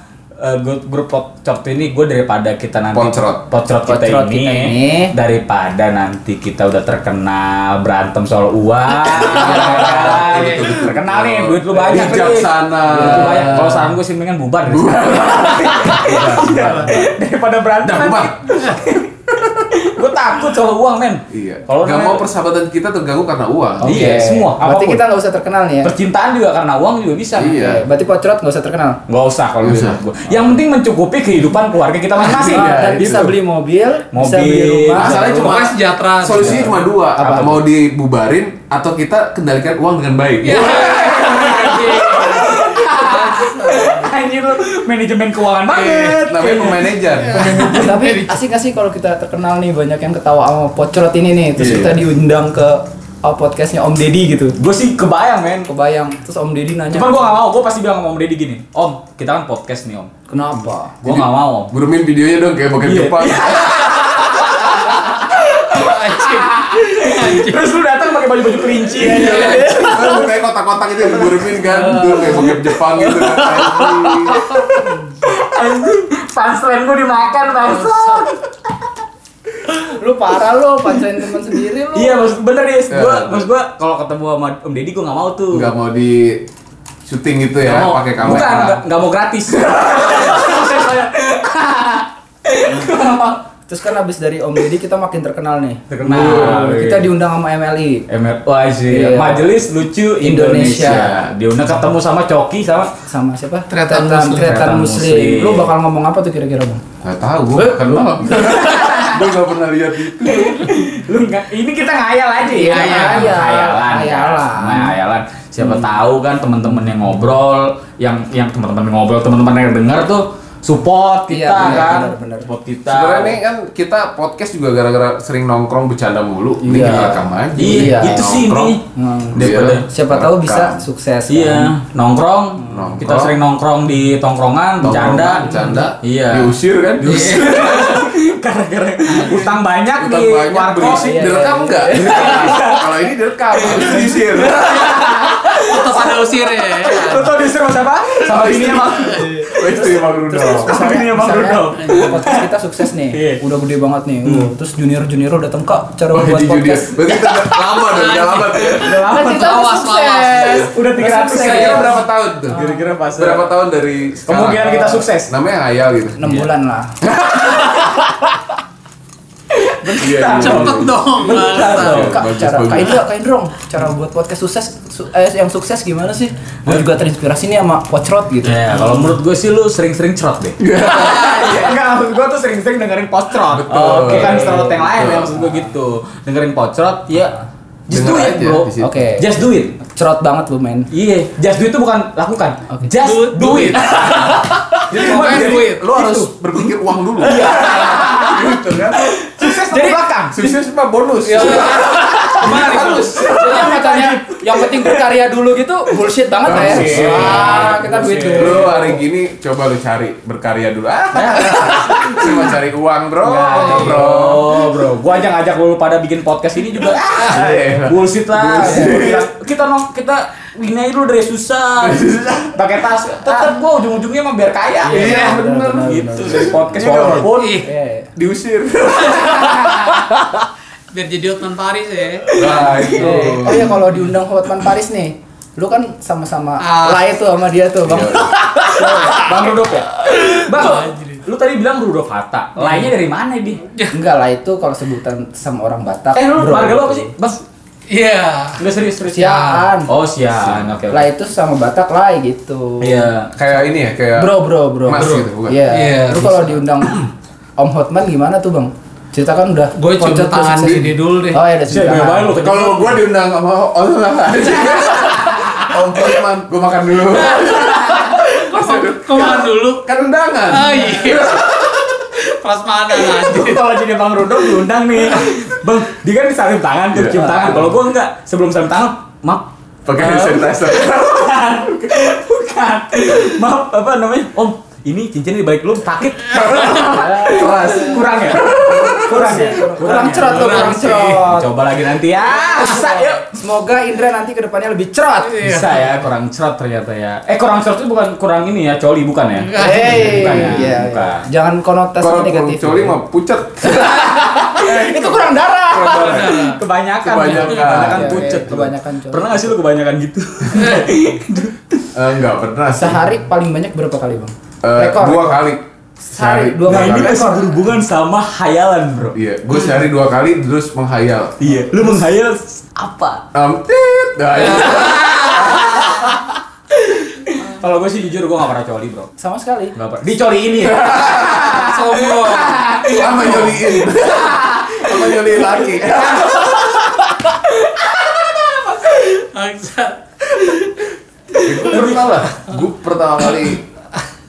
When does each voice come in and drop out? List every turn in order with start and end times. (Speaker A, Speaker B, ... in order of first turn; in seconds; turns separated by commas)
Speaker A: 0.4-22.3, Speaker B: 2.9-3.4, Speaker C: 3.8-5.1, Speaker B: 9.1-13.9, Speaker D: 9.2-10.7, Speaker B: 14.6-17.0, Speaker B: 17.8-18.6, Speaker B: 21.3-24.3, Speaker A: 23.8-25.0, Speaker C: 23.8-25.9, Speaker A: 25.8-27.6, Speaker B: 27.3-27.8, Speaker C: 27.5-29.0, Speaker A: 29.1-32.8, Speaker B: 29.6-30.0, Speaker B: 32.2-33.3, Speaker C: 32.3-35.1, Speaker A: 34.1-35.6, Speaker B: 34.9-40.9, Speaker D: 35.3-36.7, Speaker A: 37.2-37.6, Speaker D: 40.4-44.1, Speaker A: 40.6-47.7, Speaker D: 45.7-46.2, Speaker B: 46.3-47.6, Speaker D: 47.2-48.4, Speaker C: 47.5-54.6, Speaker B: 51.6-52.0, Speaker A: 54.6-55.7, Speaker C: 55.7-57.4, Speaker A: 56.9-60.1, Speaker C: 60.3-61.0, Speaker A: 61.0-61.7, Speaker B: 61.0-63.9, Speaker A: 62.8-70.3, Speaker D: 65.7-67.6, Speaker D: 69.0-69.9, Speaker B: 69.2-74.5, Speaker D: 71.6-72.4, Speaker A: 72.0-78.5, Speaker D: 74.0-74.8, Speaker C: 74.6-74.9, Speaker C: 79.7-82.2, Speaker A: 81.9-85.7, Speaker B: 82.9-83.5, Speaker B: 85.5-86.5, Speaker B: 87.0-88.8, Speaker A: 87.6-93.4, Speaker B: 89.5-89.9, Speaker C: 93.7-98.0, Speaker A: 95.9-97.1, Speaker B: 96.1-96.6, Speaker A: 98.1-102.9, Speaker C: 98.9-99.5, Speaker C: 100.2-101.2, Speaker C: 102.7-106.8, Speaker D: 103.7-104.6, Speaker A: 104.4-105.7, Speaker B: 107.0-110.7, Speaker C: 107.6-108.0, Speaker A: 108.3-109.2, Speaker A: 110.2-123.4, Speaker C: 112.5-115.0, Speaker D: 112.6-113.4, Speaker C: 121.3-122.5, Speaker B: 122.9-128.8, Speaker C: 126.6-128.3, Speaker A: 126.8-129.8, Speaker C: 128.9-129.4, Speaker B: 129.3-130.8, Speaker C: 129.9-131.7, Speaker A: 131.3-141.4, Speaker B: 132.7-133.4, Speaker B: 134.8-137.8, Speaker C: 135.5-135.9, Speaker D: 137.0-138.0, Speaker D: 139.1-139.6, Speaker B: 139.9-144.7, Speaker C: 140.8-142.6, Speaker A: 141.9-143.0, Speaker A: 143.5-152.4, Speaker D: 143.9-147.4, Speaker B: 148.2-150.8, Speaker C: 150.3-157.2, Speaker A: 153.1-153.4, Speaker A: 154.2-154.5, Speaker B: 156.1-159.0, Speaker D: 157.7-161.7, Speaker A: 158.7-163.5, Speaker C: 159.1-161.9, Speaker B: 161.3-166.2, Speaker C: 162.5-162.9, Speaker A: 164.3-165.3, Speaker C: 166.2-167.0, Speaker A: 167.3-168.2, Speaker A: 169.5-172.3, Speaker B: 170.0-173.0, Speaker D: 170.2-172.1, Speaker C: 171.3-178.9, Speaker A: 178.4-187.4, Speaker B: 180.6-181.4, Speaker D: 181.2-181.6, Speaker B: 183.5-185.3, Speaker C: 184.0-185.7, Speaker A: 187.9-189.7, Speaker B: 187.9-188.9, Speaker C: 188.8-189.2, Speaker C: 189.8-190.9, Speaker A: 190.9-196.6, Speaker D: 192.9-195.8, Speaker B: 194.9-199.4, Speaker A: 197.2-200.6, Speaker B: 200.3-201.9, Speaker D: 201.2-203.5, Speaker A: 201.3-205.0, Speaker C: 202.7-209.0, Speaker B: 206.4-207.7, Speaker A: 206.5-208.7, Speaker D: 207.0-207.8, Speaker B: 208.3-214.7, Speaker A: 211.1-212.5, Speaker A: 213.2-227.6, Speaker C: 213.7-214.0, Speaker B: 217.2-219.3, Speaker C: 218.5-219.0, Speaker B: 221.8-222.5, Speaker C: 224.8-228.1, Speaker B: 224.9-227.3, Speaker D: 227.2-227.7, Speaker B: 228.2-229.9, Speaker A: 229.4-229.9, Speaker D: 230.9-232.5, Speaker B: 232.3-233.7, Speaker C: 232.5-239.3, Speaker D: 236.6-237.1, Speaker B: 237.8-238.3, Speaker A: 238.8-243.6, Speaker D: 240.0-241.2, Speaker C: 242.6-242.9, Speaker D: 243.7-243.9, Speaker C: 243.9-247.1, Speaker A: 246.1-247.4, Speaker D: 247.9-248.6, Speaker A: 248.6-251.1, Speaker C: 249.0-249.9, Speaker C: 250.9-253.1, Speaker A: 252.8-253.3, Speaker B: 253.3-254.3, Speaker C: 254.2-262.3, Speaker B: 254.8-255.6, Speaker D: 254.9-256.6, Speaker D: 259.7-261.4, Speaker A: 261.7-263.0, Speaker B: 262.4-271.7, Speaker D: 267.1-269.9, Speaker D: 270.4-273.6, Speaker A: 273.0-293.4, Speaker B: 276.9-277.7, Speaker C: 277.1-277.6, Speaker B: 279.9-281.7, Speaker D: 286.4-287.1, Speaker C: 286.8-291.5, Speaker B: 287.2-289.6, Speaker D: 289.9-291.2, Speaker C: 292.2-295.4, Speaker D: 295.2-295.8, Speaker A: 295.4-301.2, Speaker D: 299.4-300.6, Speaker C: 299.6-303.0, Speaker B: 302.0-306.5, Speaker C: 303.6-306.2, Speaker D: 305.7-306.6, Speaker A: 306.5-311.8, Speaker B: 307.0-308.6, Speaker C: 307.8-309.6, Speaker B: 311.9-313.0, Speaker C: 312.7-315.4, Speaker B: 314.6-317.2, Speaker C: 316.0-317.7, Speaker A: 316.6-319.2, Speaker B: 319.1-321.5, Speaker A: 321.4-323.2, Speaker B: 323.3-326.0, Speaker D: 324.3-325.9, Speaker A: 325.6-326.1, Speaker A: 327.2-329.1, Speaker C: 329.2-329.7, Speaker A: 329.7-338.8, Speaker B: 330.6-331.6, Speaker D: 331.2-333.5, Speaker B: 332.9-336.6, Speaker D: 338.8-342.6, Speaker B: 341.4-343.6, Speaker A: 341.6-342.1